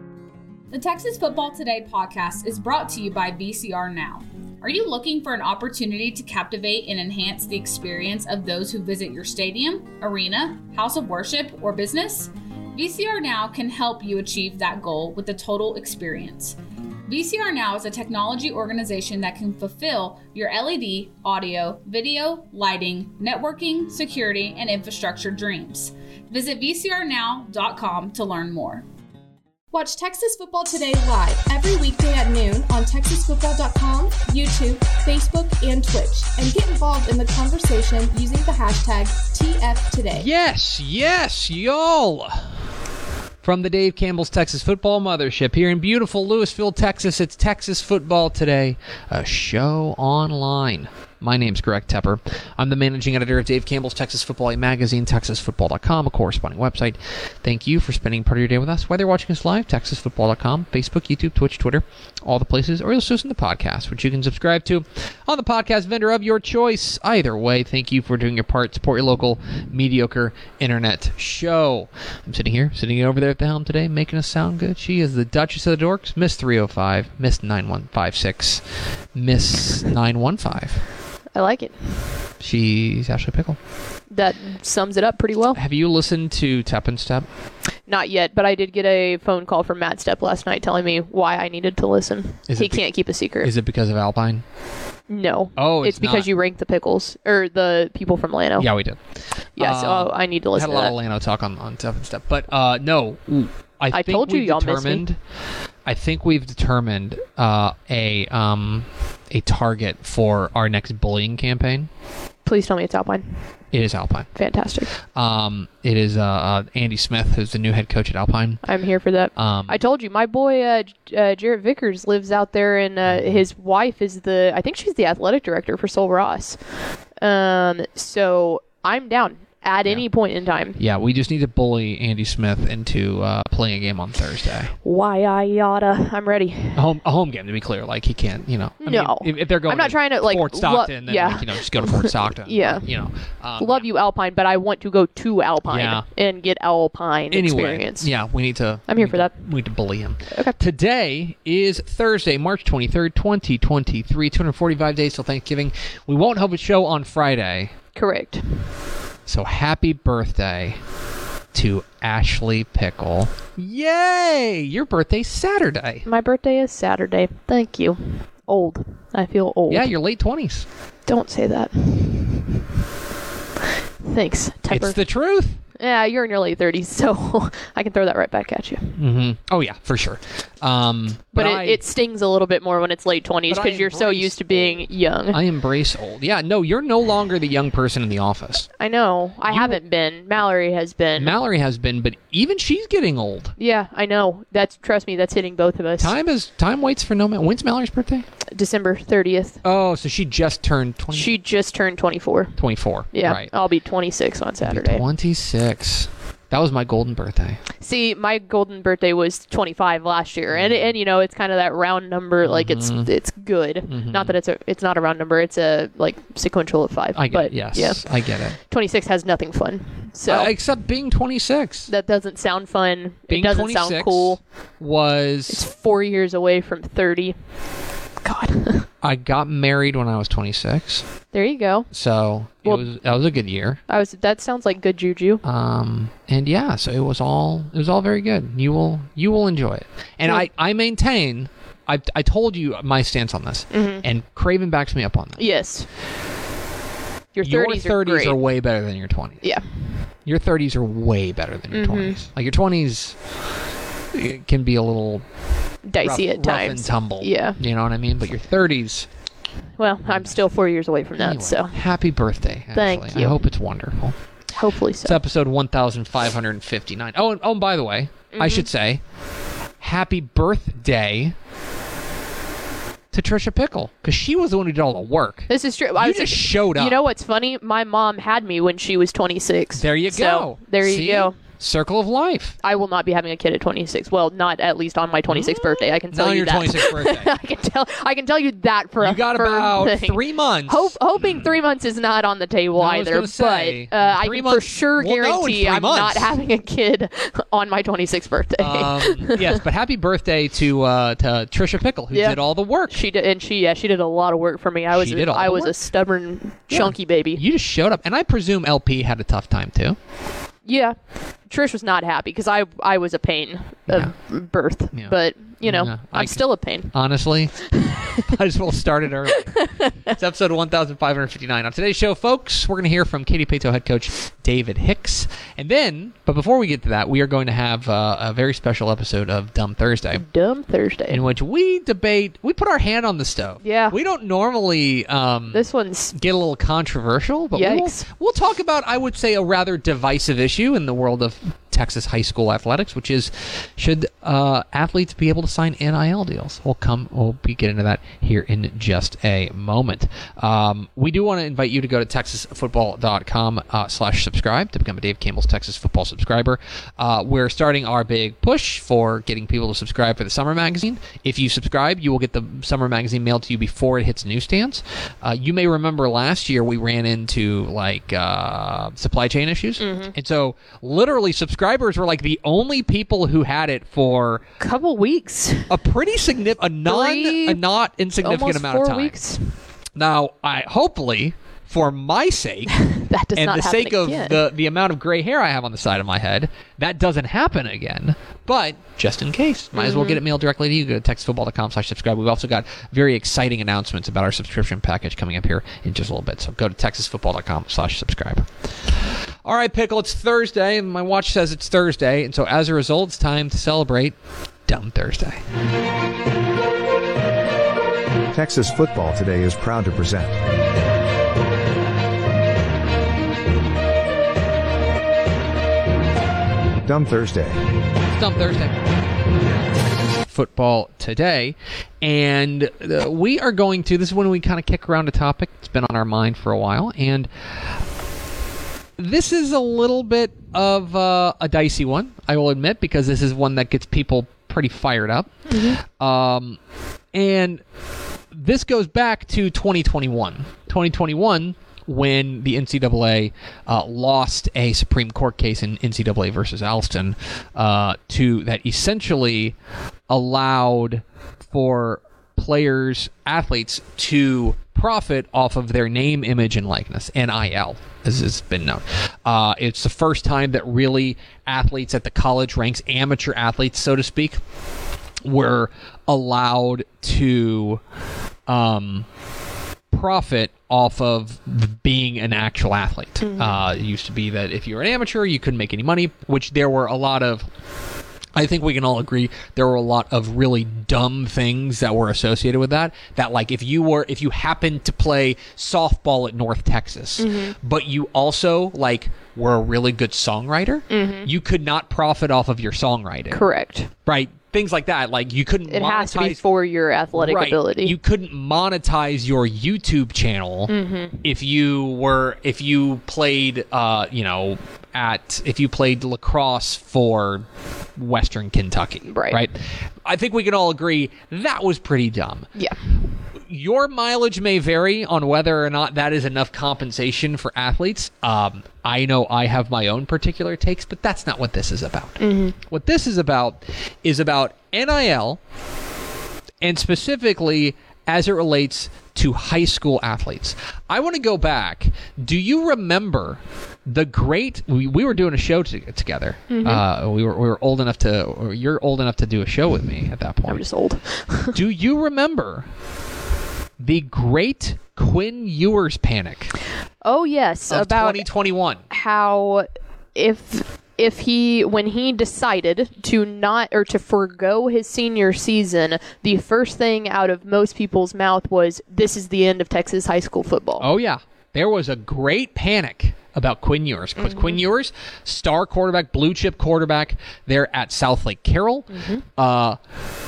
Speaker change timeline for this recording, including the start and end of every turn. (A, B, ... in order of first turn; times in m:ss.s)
0:00.7-0:28.9 A
0:29.7-0:40.3 B
0:40.1-0:42.6 C
0:43.4-1:20.8 C
1:21.3-1:22.0 D
1:22.4-1:23.6 C
1:24.1-1:25.6 D
1:25.6-1:27.3 C
1:27.9-1:33.5 D
1:32.5-1:34.4 C
1:35.1-1:38.7 D
1:35.6-1:36.3 C
1:38.6-1:45.2 C
1:39.6-1:40.9 D
1:43.9-1:45.0 D
1:45.8-1:51.9 C
1:52.4-1:53.4 D
1:53.7-1:58.6 C
1:54.4-1:54.9 D
1:58.6-2:06.6 D
1:59.4-1:59.8 C
2:03.1-2:03.4 C
2:07.2-2:10.8 D
2:09.8-2:14.8 C
2:14.8-2:16.8 D
2:16.8-2:23.9 C
2:18.8-2:28.1 D
2:25.7-2:26.0 C
2:27.3-2:37.7 C
2:28.9-2:29.3 D
2:30.3-2:30.6 D
2:38.0-2:38.6 D
2:39.3-2:40.9 C
2:41.5-2:46.1 C
2:46.1-2:49.9 D
2:49.7-2:50.7 C
2:51.1-2:52.5 D
2:54.0-2:55.0 D
2:54.7-2:55.6 C
2:55.8-2:59.0 D
2:59.0-3:01.8 C
3:01.3-3:05.4 D
3:03.5-3:08.7 C
3:08.8-3:11.4 D
3:09.5-3:09.8 C
3:11.2-3:13.6 C
3:13.6-3:16.1 D
3:16.0-3:18.3 C
3:18.5-3:19.6 D
3:19.6-3:21.3 C
3:21.1-3:25.0 D
3:22.6-3:23.5 C
3:24.6-3:27.6 C
3:27.8-3:40.5 D
3:30.5-3:31.0 C
3:32.4-3:34.4 C
3:37.2-3:38.6 C
3:40.3-3:41.9 C
3:41.9-3:44.4 D
3:43.3-3:45.6 C
3:45.5-3:47.6 D
3:48.2-3:48.9 D
3:49.0-3:51.0 C
3:51.3-3:51.9 D
3:51.9-3:53.8 C
3:53.9-3:55.4 D
3:55.4-4:05.5 C
4:03.7-4:04.0 D
4:05.4-4:05.9 D
4:07.4-4:08.4 D
4:07.4-4:09.6 C
4:09.4-4:10.1 D
4:10.2-4:13.3 C
4:11.7-4:12.2 D
4:14.1-4:19.1 C
4:15.8-4:17.6 D
4:19.8-4:21.8 D
4:20.1-4:20.4 C
4:21.2-4:24.2 C
4:22.7-4:23.4 D
4:24.5-4:25.2 D
4:25.0-4:29.0 C
4:28.3-4:28.7 D
4:29.8-4:31.4 C
4:33.1-4:37.0 C
4:35.5-4:41.4 D
4:39.8-4:42.6 C
4:42.6-4:59.6 D
4:45.3-4:47.3 C
4:49.0-4:51.5 C
4:52.8-4:56.4 C
4:58.6-5:03.0 C
5:02.1-5:07.4 D
5:04.9-5:06.1 C
5:06.7-5:10.0 C
5:10.6-5:17.0 D
5:13.9-5:30.2 C
5:30.1-5:31.3 D
5:31.1-6:14.4 C
5:33.6-5:34.0 D
5:35.5-5:36.1 D
5:37.6-5:38.1 D
6:09.8-6:10.1 D
6:14.6-6:15.7 D
6:15.7-6:19.2 C
6:16.9-6:17.6 D
6:18.2-6:19.6 D
6:20.0-6:45.4 C
6:22.8-6:24.4 D
6:29.8-6:30.2 D
6:48.3-6:50.4 E
6:56.8-6:57.6 E
6:58.1-6:58.9 C
7:00.2-7:07.3 C
7:09.0-7:16.6 C
7:15.5-7:15.8 D
7:17.1-7:17.6 C
7:18.3-7:29.6 C
7:30.1-7:44.4 C
7:45.2-7:47.8 C
7:48.5-7:49.1 C
7:49.9-7:57.5 C
7:53.2-7:53.6 D
7:58.4-8:13.4 C
8:07.2-8:07.6 D
8:10.9-8:11.3 D
8:13.3-8:13.9 D
8:14.1-8:16.4 C
8:15.7-8:17.9 D
8:17.1-8:27.4 C
8:20.7-8:21.2 D
8:28.0-8:32.5 C
8:29.1-8:29.4 D
8:33.5-8:45.4 C
8:42.2-8:42.5 D
8:46.6-9:00.7 C
8:56.5-8:56.8 D
9:00.5-9:01.6 D
9:01.5-9:02.7 C
9:03.8-9:06.5 C
9:07.0-9:08.3 D
9:07.7-9:08.8 C
9:08.9-9:20.9 D
9:20.8-9:29.8 C
9:24.2-9:24.6 D
9:28.9-9:29.2 D